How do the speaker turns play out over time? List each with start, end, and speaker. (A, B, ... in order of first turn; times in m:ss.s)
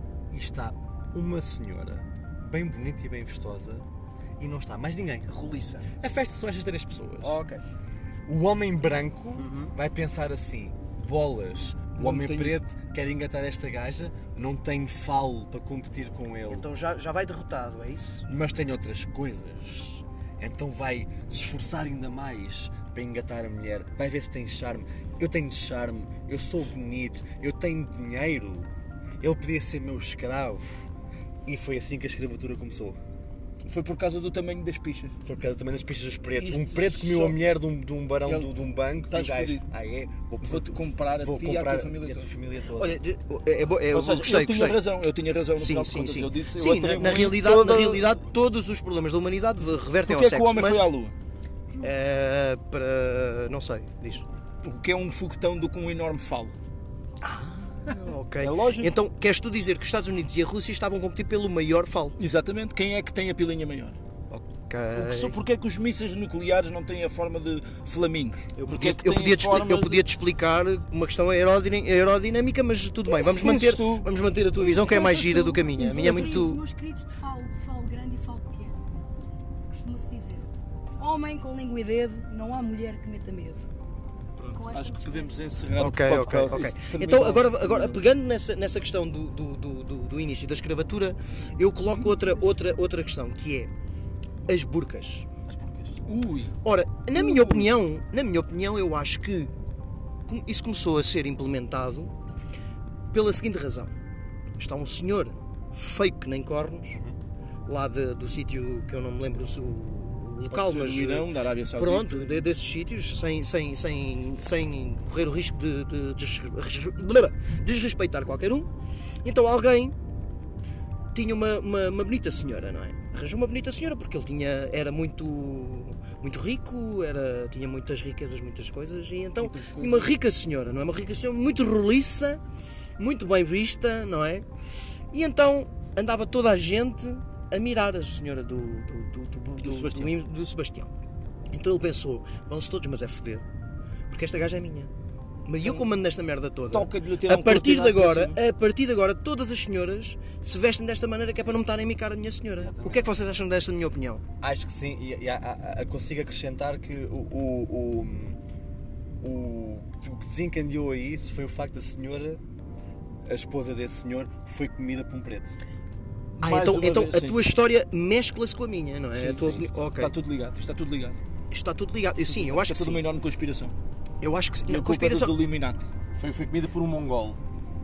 0:00.3-0:03.8 A
0:04.4-0:07.4 A
0:05.3-0:05.9 B
0:07.2-0:07.6 B
0:08.3-0:16.7 A
0:09.4-0:09.7 B
0:12.0-0:12.6 C
0:16.5-0:18.2 B
0:18.3-0:30.8 A
0:31.5-0:33.0 A
0:33.7-0:35.2 C
0:35.2-0:43.0 A
0:36.4-0:37.4 C
0:38.2-0:38.5 C
0:39.1-0:39.6 C
0:40.4-0:42.3 C
0:42.8-0:44.8 B
0:43.9-0:48.1 C
0:45.6-0:50.8 B
0:50.0-0:51.1 C
0:51.8-0:54.2 B
0:54.6-0:56.5 C
0:57.2-1:02.2 B
0:58.4-0:58.9 C
1:02.2-1:04.0 C
1:04.3-1:05.4 B
1:05.0-1:10.0 C
1:08.6-1:16.6 B
1:13.1-1:16.4 C
1:14.7-1:18.8 D
1:19.7-1:23.7 D
1:24.4-1:28.0 C
1:24.5-1:25.6 D
1:25.8-1:33.7 B
1:34.5-1:35.3 B
1:35.5-1:36.0 A
1:36.0-1:36.5 C
1:36.6-1:39.5 B
1:37.2-1:37.7 C
1:40.3-1:42.2 B
1:43.1-1:43.9 B
1:44.6-1:47.0 B
1:47.7-1:58.7 B
1:50.5-1:52.5 C
1:59.2-2:00.0 B
2:01.1-2:12.4 B
2:09.4-2:10.2 C
2:13.0-2:14.5 B
2:15.1-2:20.9 B
2:19.6-2:20.2 C
2:21.5-2:23.4 B
2:24.1-2:24.9 B
2:25.5-2:34.2 B
2:25.6-2:25.9 C
2:26.7-2:28.4 C
2:32.6-2:33.2 A
2:34.4-2:38.4 A
2:39.2-2:42.4 A
2:43.3-2:45.6 A
2:46.4-2:47.4 C
2:46.4-2:50.1 B
2:49.2-2:51.2 C
2:51.5-2:53.0 B
2:52.3-2:53.7 C
2:54.2-2:55.4 B
2:54.7-2:55.9 C
2:56.2-2:57.4 A